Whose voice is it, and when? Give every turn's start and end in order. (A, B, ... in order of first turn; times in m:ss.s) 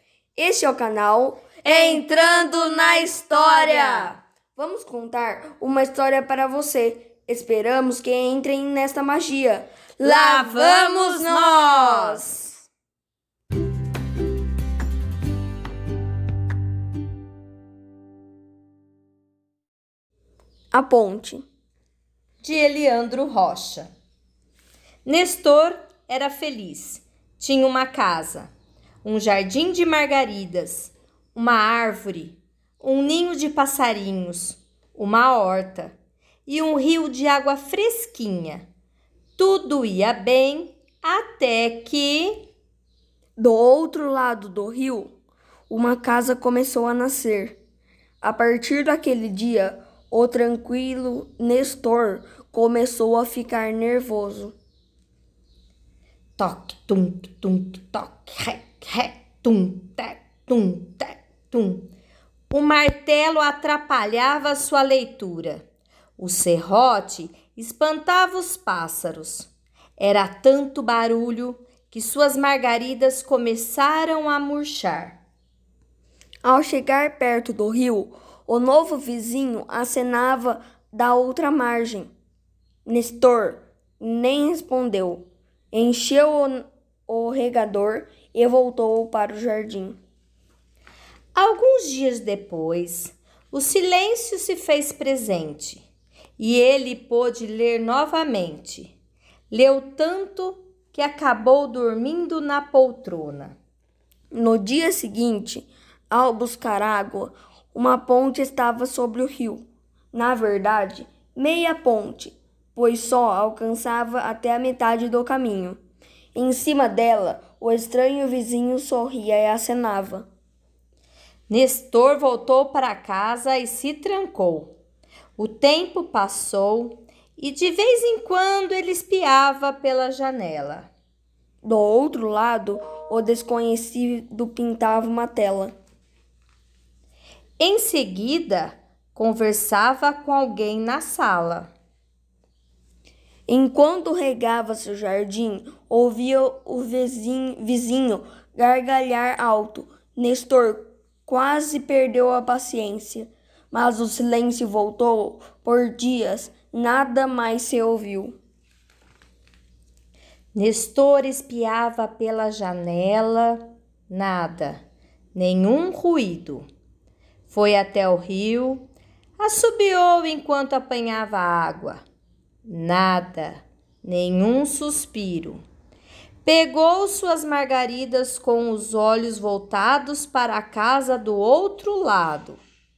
0:00.4-0:12.2 A
0:01.6-0:04.2 B
0:10.0-0:12.7 B
0:20.7-0:21.4 A
0:22.4-0:23.9 B
0:25.0-0:28.5 B
0:29.0-0:35.9 B
0:36.5-0:38.7 B
0:39.4-0:42.5 B
0:43.4-0:45.1 A
0:45.7-0:47.6 A
0:48.2-0:54.5 A
0:56.4-1:01.9 B
1:02.5-1:05.6 B
1:06.2-1:15.2 B
1:16.4-1:22.1 A
1:22.9-1:30.0 A
1:31.4-1:35.8 B
1:36.4-1:38.9 B
1:39.5-1:43.6 B
1:44.3-1:55.8 A
1:56.4-2:00.3 A
2:01.5-2:04.8 B
2:05.4-2:10.9 B
2:11.6-2:15.7 A
2:17.6-2:21.7 B
2:23.5-2:38.4 A
2:40.5-2:44.8 B
2:45.4-2:46.7 B
2:47.5-2:48.9 B
2:49.4-2:52.0 B
2:52.7-2:55.6 B
2:56.4-3:02.6 B